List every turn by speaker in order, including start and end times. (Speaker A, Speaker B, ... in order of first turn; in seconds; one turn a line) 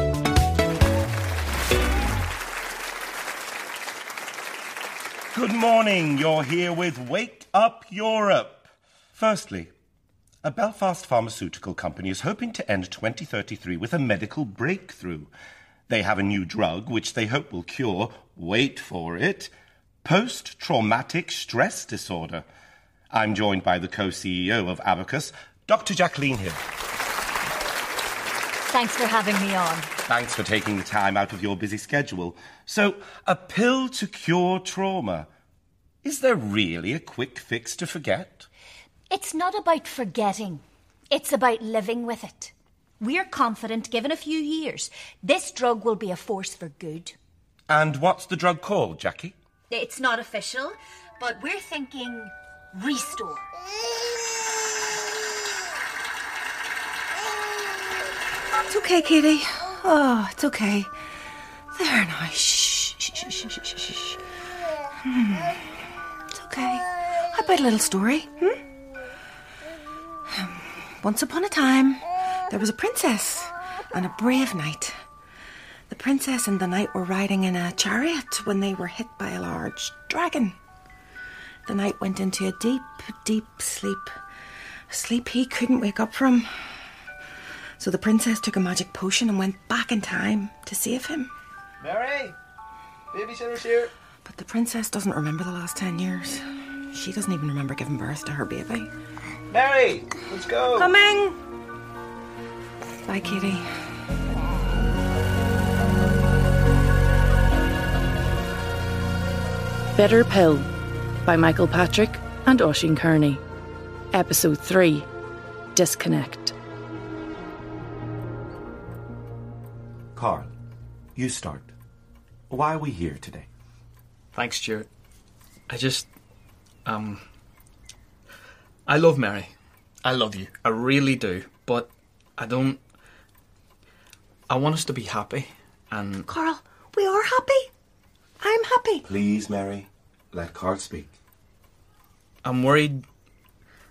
Speaker A: 5.3-9.7
Speaker A: 10.4-15.3
Speaker A: 15.9-19.5
Speaker A: 20.0-22.4
Speaker A: 23.1-26.6
Speaker B: 28.7-29.9
Speaker A: 30.1-35.3
Speaker A: 36.0-38.5
Speaker B: 39.1-47.2
Speaker A: 47.7-49.4
Speaker B: 49.7-53.5
Speaker C: 58.6-60.9
Speaker C: 61.8-64.2
Speaker C: 65.0-65.7
Speaker C: 66.3-68.6
Speaker C: 70.3-75.0
Speaker C: 75.9-80.5
Speaker C: 81.7-84.1
Speaker C: 84.9-86.5
Speaker C: 87.8-91.3
Speaker D: 91.8-92.4
Speaker D: 93.1-93.9
Speaker C: 94.2-98.9
Speaker D: 99.5-100.9
Speaker C: 100.8-101.4
Speaker C: 103.0-103.7
Speaker E: 109.9-110.7
Speaker E: 111.2-113.4
Speaker E: 114.1-115.1
Speaker E: 115.8-116.5
Speaker A: 120.2-120.5
Speaker A: 121.2-121.7
Speaker A: 122.5-123.5
Speaker D: 124.3-124.9
Speaker D: 125.7-126.1
Speaker D: 126.9-127.2
Speaker D: 128.9-129.5
Speaker D: 130.0-132.8
Speaker D: 134.5-136.3
Speaker C: 136.3-137.7
Speaker C: 138.4-139.1
Speaker A: 139.0-141.1
Speaker D: 142.4-143.0